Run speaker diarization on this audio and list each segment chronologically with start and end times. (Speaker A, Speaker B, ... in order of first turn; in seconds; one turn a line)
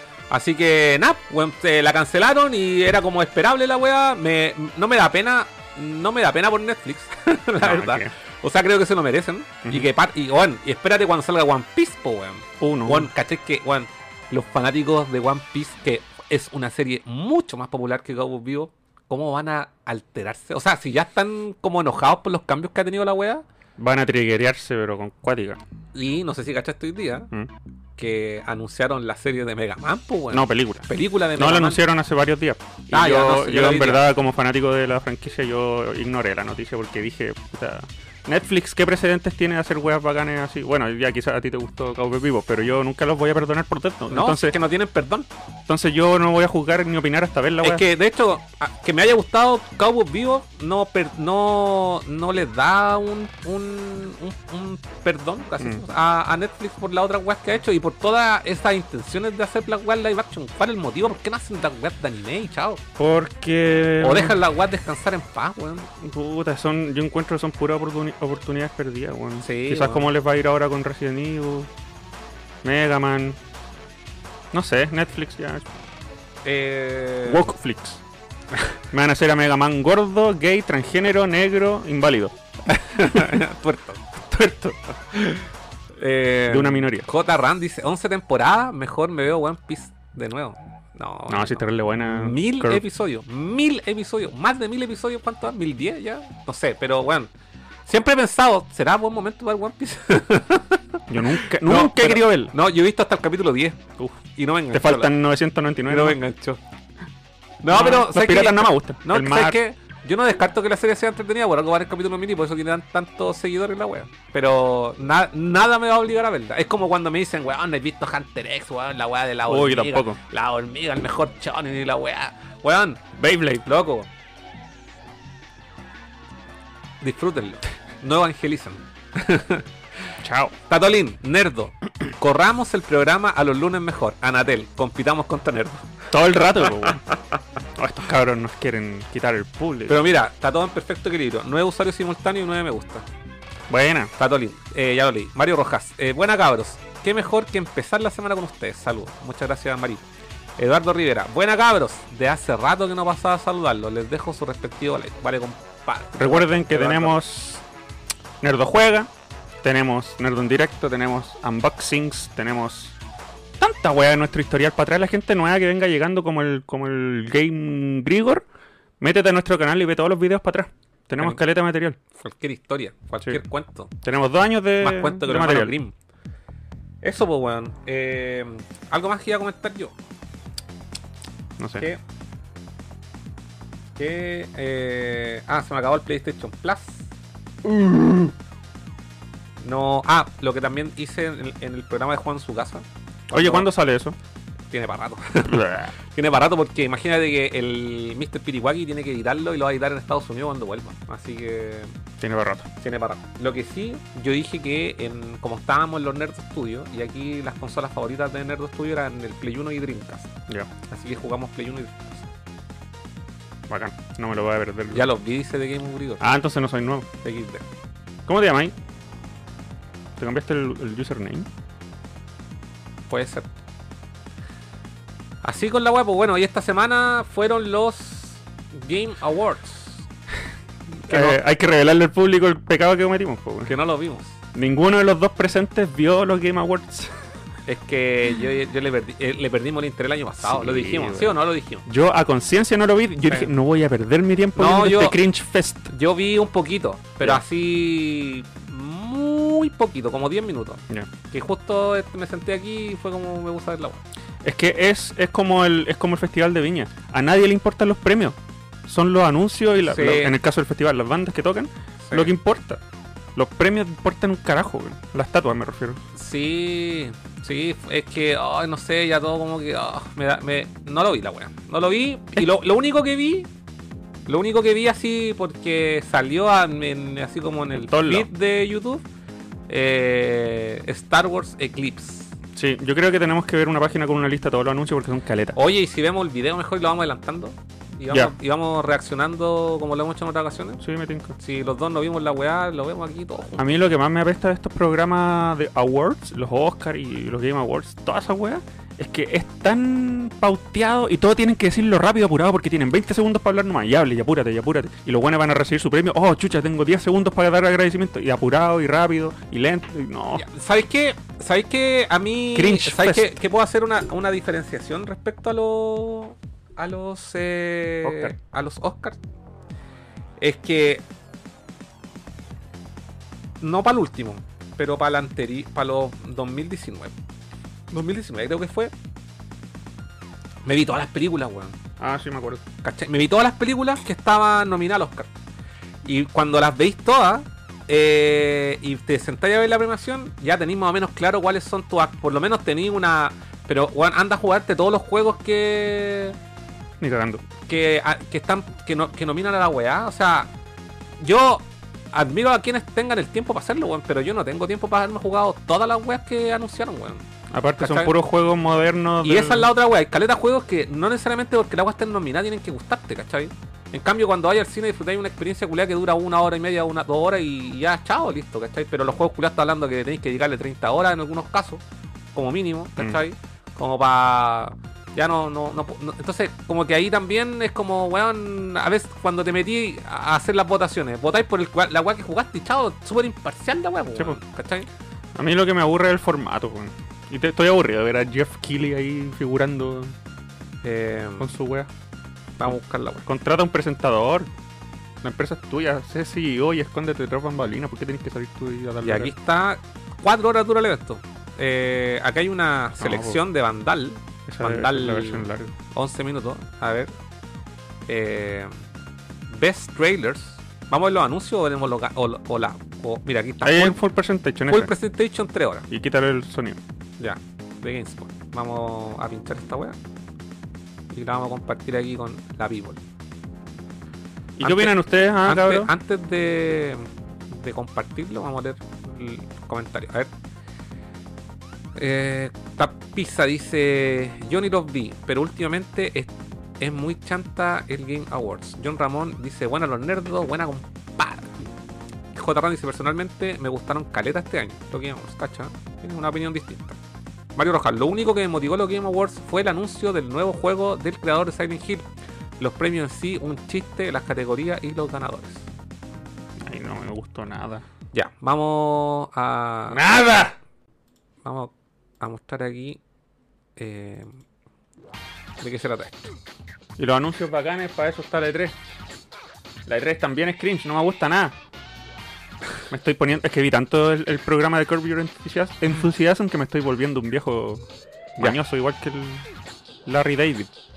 Speaker A: 0.3-23.4
Speaker B: 7.6-8.1
Speaker B: 12.6-13.1
Speaker B: 23.8-25.6
Speaker A: 25.9-27.3
Speaker A: 28.0-31.8
Speaker B: 30.3-44.6
Speaker A: 32.9-34.0
Speaker A: 44.1-45.3
Speaker B: 45.7-47.9
Speaker A: 47.6-62.8
Speaker B: 55.6-55.9
Speaker B: 63.0-64.4
Speaker A: 64.0-65.9
Speaker B: 65.9-71.7
Speaker A: 69.4-70.1
Speaker B: 72.6-73.4
Speaker B: 74.5-75.8
Speaker A: 76.4-77.5
Speaker B: 77.3-78.0
Speaker B: 78.9-82.3
Speaker A: 82.7-97.3
Speaker B: 86.5-87.1
Speaker B: 91.3-92.8
Speaker A: 97.9-103.8
Speaker B: 101.1-102.5
Speaker A: 104.3-105.2
Speaker B: 104.7-106.2
Speaker A: 105.9-106.6
Speaker A: 107.6-124.1
Speaker B: 107.7-109.6
Speaker B: 119.5-120.2
Speaker B: 123.2-123.6
Speaker A: 127.0-130.1
Speaker B: 130.2-130.6
Speaker A: 130.7-135.9
Speaker B: 136.1-137.0
Speaker A: 136.6-137.0
Speaker B: 137.8-140.0
Speaker A: 139.9-143.1
Speaker B: 143.7-144.1
Speaker A: 144.2-150.1
Speaker A: 150.6-157.2
Speaker B: 156.2-157.6
Speaker B: 158.4-159.1
Speaker B: 159.6-163.0
Speaker B: 163.6-168.5
Speaker B: 169.0-172.0
Speaker A: 172.1-173.9
Speaker B: 174.0-175.8
Speaker A: 174.8-175.9
Speaker A: 177.0-179.9
Speaker B: 181.6-181.9
Speaker A: 184.0-187.1
Speaker A: 189.6-193.7
Speaker B: 193.3-194.2
Speaker A: 194.7-202.0
Speaker B: 195.5-195.9
Speaker B: 202.2-202.7
Speaker A: 202.8-210.3
Speaker A: 210.9-212.3
Speaker B: 213.7-215.1
Speaker A: 214.9-216.2
Speaker B: 216.2-217.1
Speaker A: 217.2-217.6
Speaker B: 218.3-218.8
Speaker B: 220.2-221.5
Speaker A: 223.1-223.5
Speaker A: 225.4-230.1
Speaker A: 230.9-231.4
Speaker B: 231.1-233.7
Speaker A: 233.6-234.4
Speaker B: 234.5-237.1
Speaker A: 237.7-241.8
Speaker B: 240.4-245.9
Speaker A: 244.6-245.2
Speaker A: 245.9-254.0
Speaker B: 254.4-262.8
Speaker A: 259.8-260.4
Speaker A: 262.0-262.3
Speaker B: 263.4-266.0
Speaker A: 266.1-273.5
Speaker A: 274.3-279.0
Speaker B: 277.7-278.3
Speaker A: 279.7-282.4
Speaker B: 282.6-285.6
Speaker A: 285.6-290.8
Speaker B: 290.8-291.4
Speaker A: 291.4-293.7
Speaker B: 293.6-310.5
Speaker A: 310.4-319.2
Speaker B: 312.5-313.3
Speaker B: 318.0-318.4
Speaker A: 320.4-321.0
Speaker A: 323.6-327.1
Speaker A: 327.9-328.9
Speaker A: 330.6-331.8
Speaker B: 332.0-332.6
Speaker A: 332.8-335.3
Speaker A: 336.1-346.4
Speaker B: 347.0-347.4
Speaker A: 347.7-350.5
Speaker A: 351.2-357.2
Speaker B: 357.5-359.7
Speaker A: 357.8-358.1
Speaker A: 359.2-371.8
Speaker A: 372.3-384.9
Speaker B: 384.1-384.4
Speaker B: 385.4-390.1
Speaker A: 390.8-391.5
Speaker B: 391.4-391.9
Speaker A: 392.6-393.2
Speaker B: 392.7-394.5
Speaker B: 395.2-399.3
Speaker A: 399.0-407.1
Speaker B: 403.0-403.4
Speaker B: 404.5-405.7
Speaker A: 408.1-408.8
Speaker A: 409.5-414.0
Speaker B: 413.6-414.9
Speaker A: 414.7-415.9
Speaker B: 415.9-416.8
Speaker A: 417.2-420.0
Speaker A: 421.1-423.0
Speaker B: 424.6-425.9
Speaker A: 424.6-430.3
Speaker A: 432.0-441.6
Speaker A: 442.3-447.0
Speaker A: 447.6-452.1
Speaker A: 452.6-455.7
Speaker B: 456.6-457.9
Speaker A: 458.1-460.0
Speaker B: 459.9-460.6
Speaker A: 461.4-463.0
Speaker A: 463.8-464.4
Speaker A: 465.6-466.1
Speaker B: 467.0-468.8
Speaker B: 469.9-471.6
Speaker B: 472.9-477.9
Speaker B: 478.4-479.4
Speaker B: 480.1-480.7